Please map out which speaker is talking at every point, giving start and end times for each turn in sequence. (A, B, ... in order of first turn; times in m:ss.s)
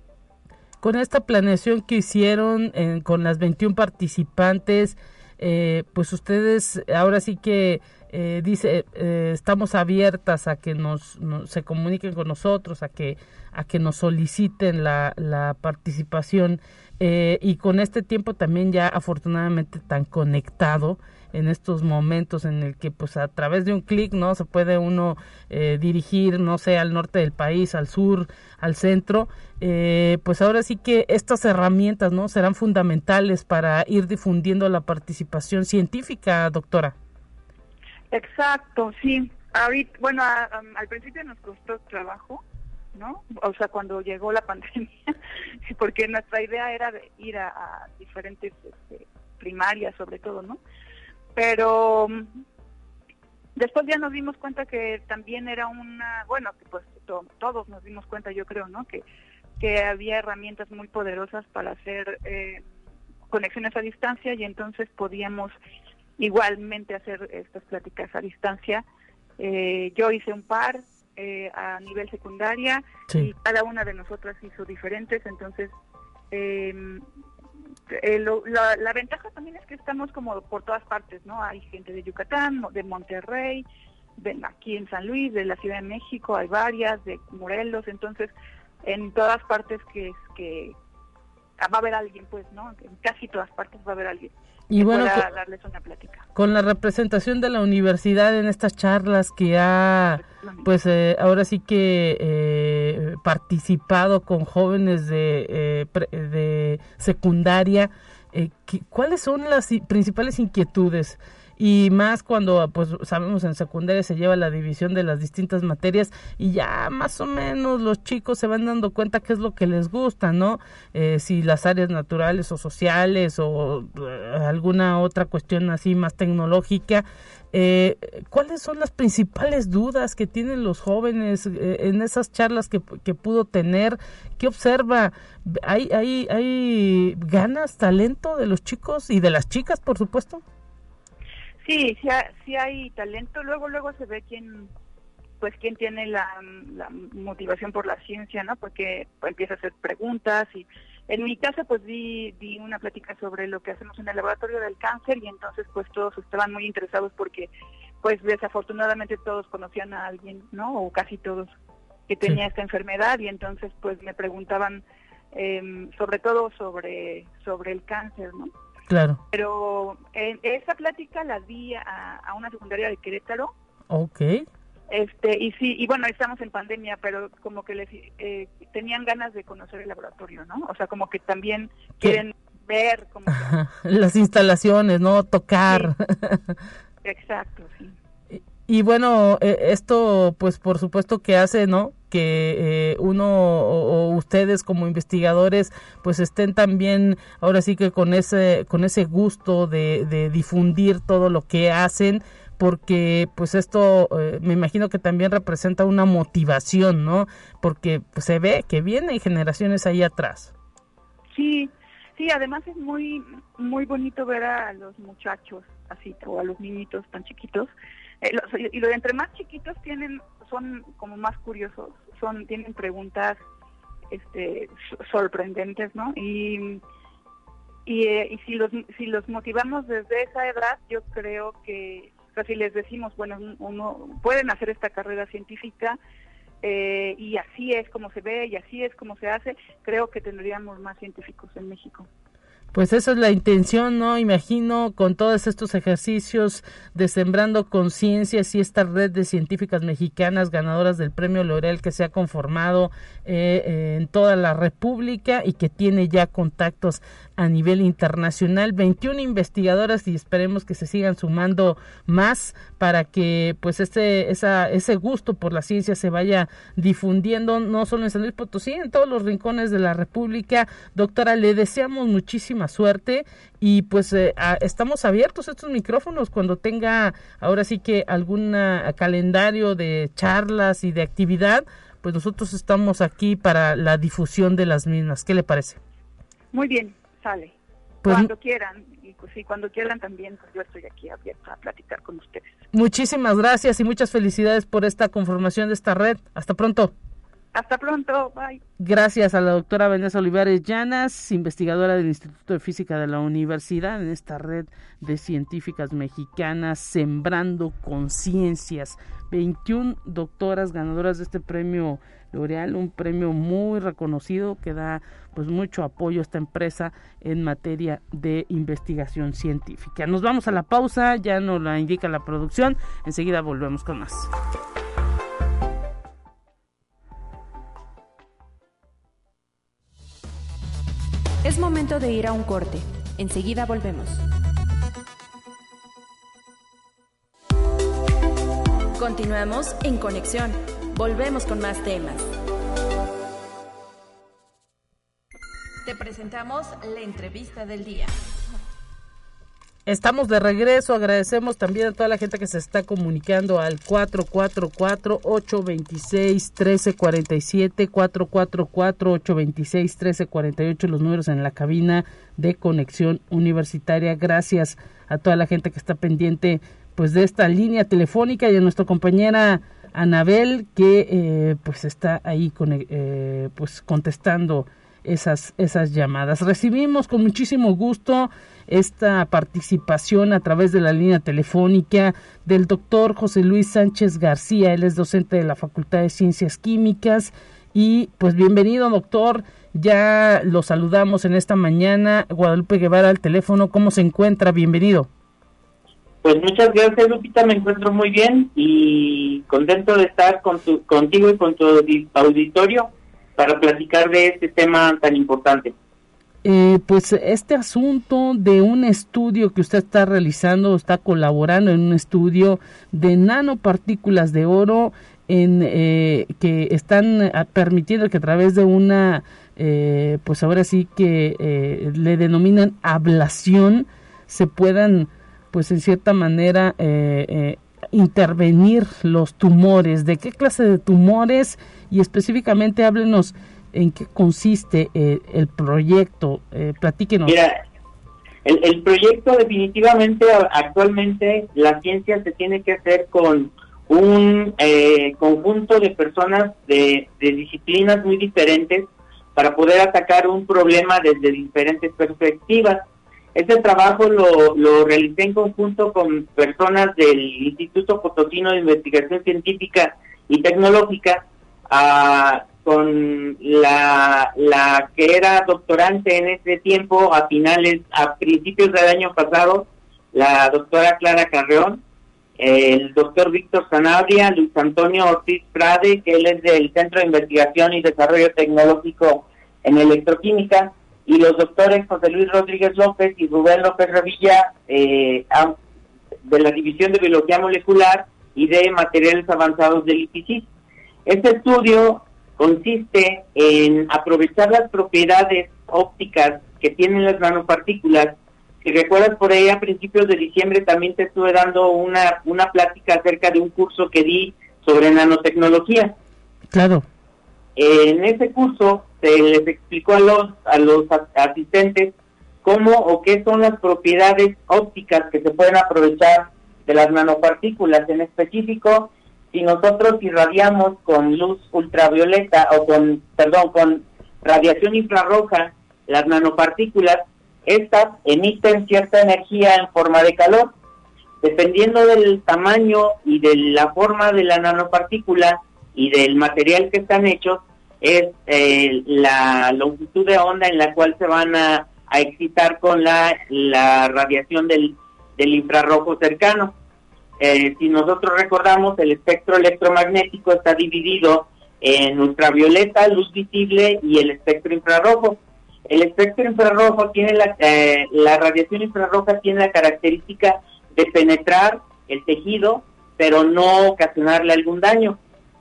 0:00.8-0:36.9 A
0:38.1-0:42.4 B
0:42.9-0:45.1 B
0:45.7-0:50.6 B
0:51.4-0:52.3 B
0:53.6-0:59.0 B
0:59.6-1:02.6 B
1:03.3-1:05.5 B
1:06.2-1:08.8 B
1:09.4-1:15.7 B
1:16.3-1:17.0 B
1:17.9-1:23.6 B
1:24.2-1:28.3 B
1:28.8-1:30.7 B
1:31.6-1:36.2 B
1:34.7-1:35.2 A
1:36.3-2:20.4 A
1:40.2-1:40.7 B
2:21.6-2:24.7 B
2:25.4-2:37.5 B
2:38.0-2:41.5 B
2:42.1-2:48.5 B
2:48.9-2:49.2 A
2:49.3-2:53.5 B
2:53.9-2:54.4 A
2:54.9-3:03.5 B
3:03.3-3:06.5 A
3:07.0-3:07.9 B
3:08.3-3:30.5 A
3:31.3-3:37.7 B
3:38.2-3:43.4 B
3:44.1-3:46.8 B
3:47.8-3:56.0 B
3:56.6-4:02.1 B
4:02.7-4:45.8 A
4:46.5-4:47.5 B
4:48.0-4:48.3 A
4:48.0-4:52.5 B
4:52.7-4:56.9 A
4:57.5-4:58.6 B
4:58.8-5:24.3 A
5:31.4-5:34.2 C
5:39.0-5:42.3 C
5:47.0-5:47.4 C
5:49.9-6:35.1 A
6:36.2-6:45.7 D
6:46.4-7:17.4 A
7:17.2-7:17.6 D
7:18.4-7:51.8 D
7:52.4-8:05.6 D
8:06.2-8:10.5 D
8:11.0-8:25.9 D
8:26.5-8:26.8 A
8:27.6-8:50.5 D
8:51.2-9:06.6 D
9:07.2-9:25.0 D